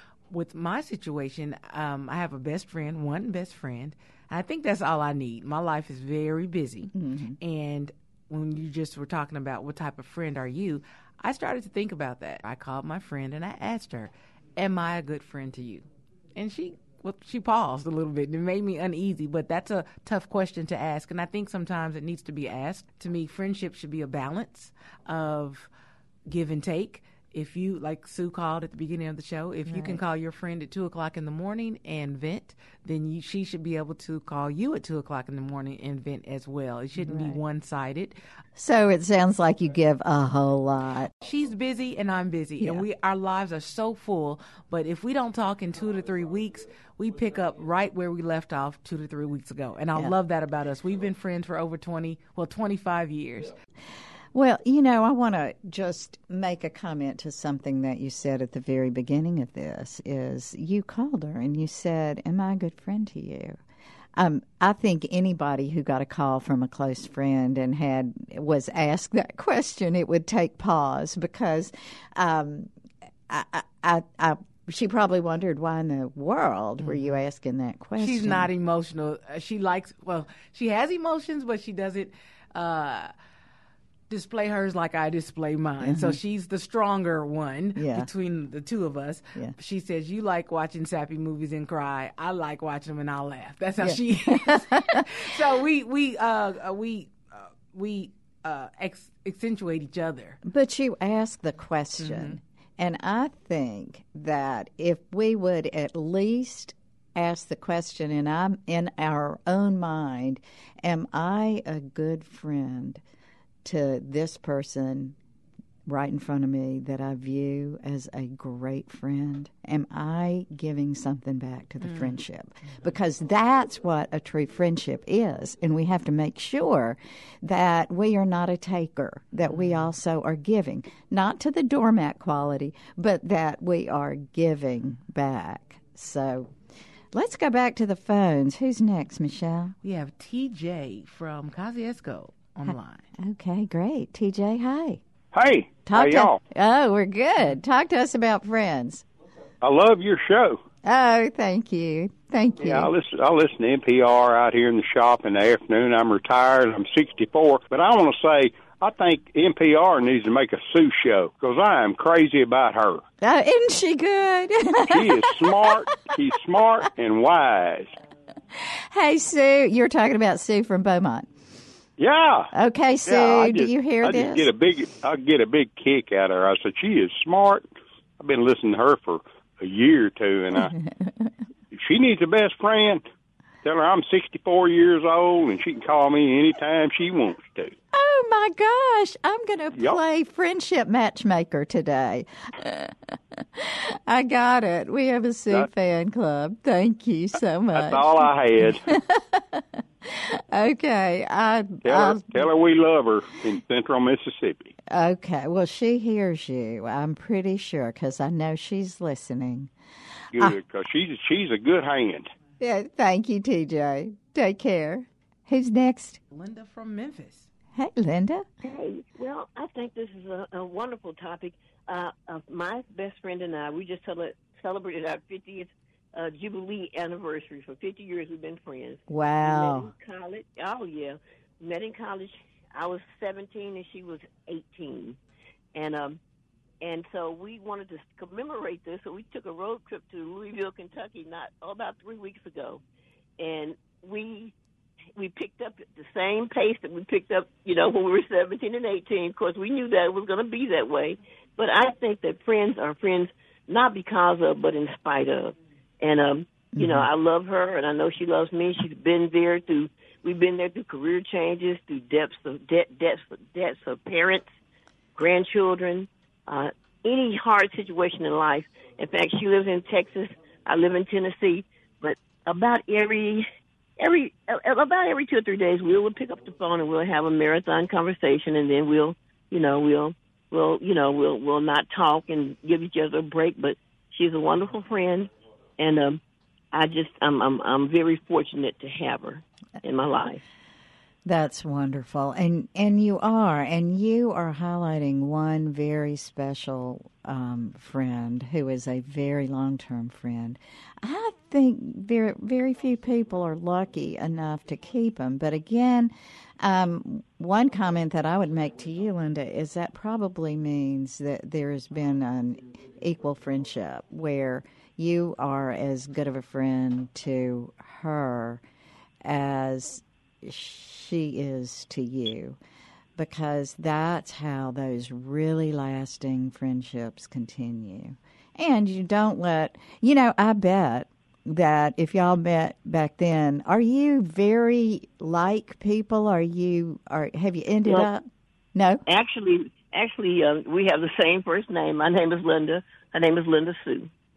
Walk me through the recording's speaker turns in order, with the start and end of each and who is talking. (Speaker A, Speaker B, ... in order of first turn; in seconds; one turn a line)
Speaker A: 0.3-25.7
Speaker B: 6.9-7.4
Speaker A: 26.3-38.2
Speaker B: 29.7-30.0
Speaker B: 37.0-37.4
Speaker B: 38.6-41.1
Speaker A: 41.2-53.6
Speaker B: 42.6-42.9
Speaker B: 54.3-63.6
Speaker B: 64.2-72.7
Speaker B: 73.3-78.5
Speaker A: 76.8-77.2
Speaker A: 78.0-83.1
Speaker A: 84.1-100.4
Speaker B: 85.8-86.2
Speaker B: 87.8-88.1
Speaker B: 93.8-95.1
Speaker B: 100.4-113.0
Speaker A: 102.0-102.4
Speaker B: 113.6-115.2
Speaker B: 115.9-136.5
Speaker A: 121.8-122.2
Speaker A: 129.5-129.8
Speaker B: 137.1-139.8
Speaker A: 139.8-143.1
Speaker B: 142.7-145.0
Speaker C: 145.3-146.4
Speaker B: 145.9-149.0
Speaker C: 149.6-150.6
Speaker B: 150.8-152.9
Speaker C: 152.6-163.0
Speaker B: 163.2-165.8
Speaker C: 164.9-167.9
Speaker B: 168.5-171.3
Speaker C: 172.0-172.5
Speaker B: 172.5-174.5
Speaker C: 173.1-180.7
Speaker B: 180.6-181.3
Speaker C: 181.7-183.0
Speaker C: 183.6-187.7
Speaker B: 187.9-202.5
Speaker C: 197.8-198.8
Speaker C: 201.8-204.7
Speaker B: 204.9-209.7
Speaker C: 210.3-212.3
Speaker B: 212.6-216.2
Speaker A: 216.3-217.5
Speaker B: 217.8-218.4
Speaker D: 218.6-235.2
Speaker B: 229.1-229.9
Speaker D: 235.7-236.2
Speaker D: 236.8-242.8
Speaker D: 243.4-244.5
Speaker D: 245.2-264.5
Speaker B: 256.8-257.1
Speaker D: 265.2-273.5
Speaker D: 274.0-286.2
Speaker D: 286.7-290.4
Speaker B: 291.3-318.6
Speaker B: 319.2-322.6
Speaker B: 323.2-338.2
Speaker B: 338.8-339.0
Speaker D: 339.1-344.1